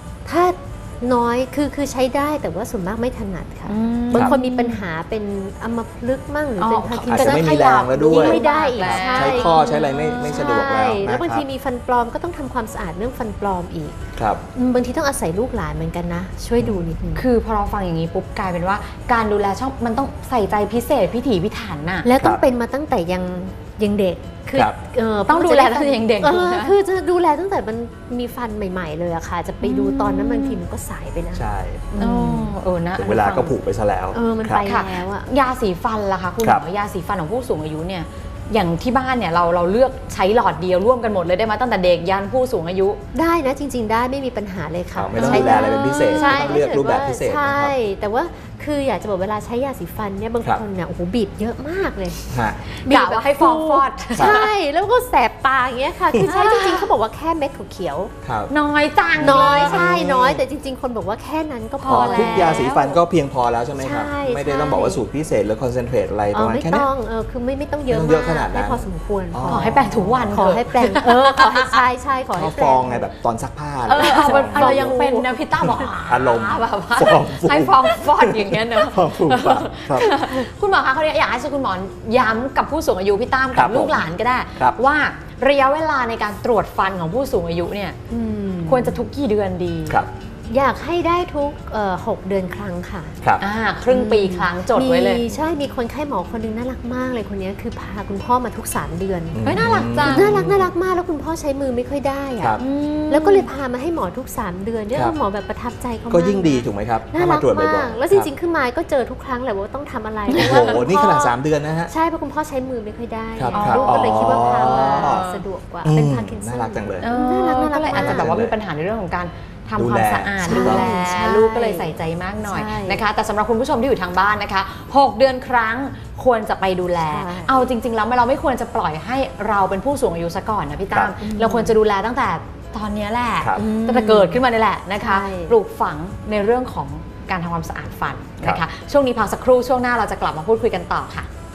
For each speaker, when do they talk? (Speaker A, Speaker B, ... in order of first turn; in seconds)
Speaker A: 0.2-13.9, 14.5-17.2, 22.0-32.5, 34.1-35.3, 43.1-52.2, 52.8-58.1, 59.2-62.8, 63.8-65.0, 66.3-73.1, 74.0-74.9, 80.0-80.5, 88.1-89.0, 90.5-93.2, 93.9-118.4, 120.4-123.0, 127.0-127.6, 131.2-131.8, 133.6-134.4, 135.0-135.5
Speaker B: 3.7-4.8, 6.6-10.6, 17.1-22.1, 25.3-26.8, 29.6-30.6, 32.0-33.5, 34.6-43.0, 45.1-46.6, 52.7-54.5, 56.2-56.9, 58.5-60.2, 61.8-63.0, 69.4-71.8, 73.8-88.0, 88.7-90.0, 93.4-95.2, 99.4-100.5, 102.6-103.5, 113.5-115.4, 117.0-141.3
Speaker C: 7.0-11.4, 14.2-14.4, 16.6-16.9, 31.3-31.9, 33.0-34.6, 44.9-47.7, 52.3-52.6, 58.2-58.5, 59.1-60.4, 61.9-66.9, 67.9-70.4, 72.3-80.1, 83.5-84.8, 99.3-100.7, 106.1-108.3, 110.3-111.9, 113.3-115.2, 115.8-117.1, 117.9-118.5, 119.8-120.9, 133.4-133.7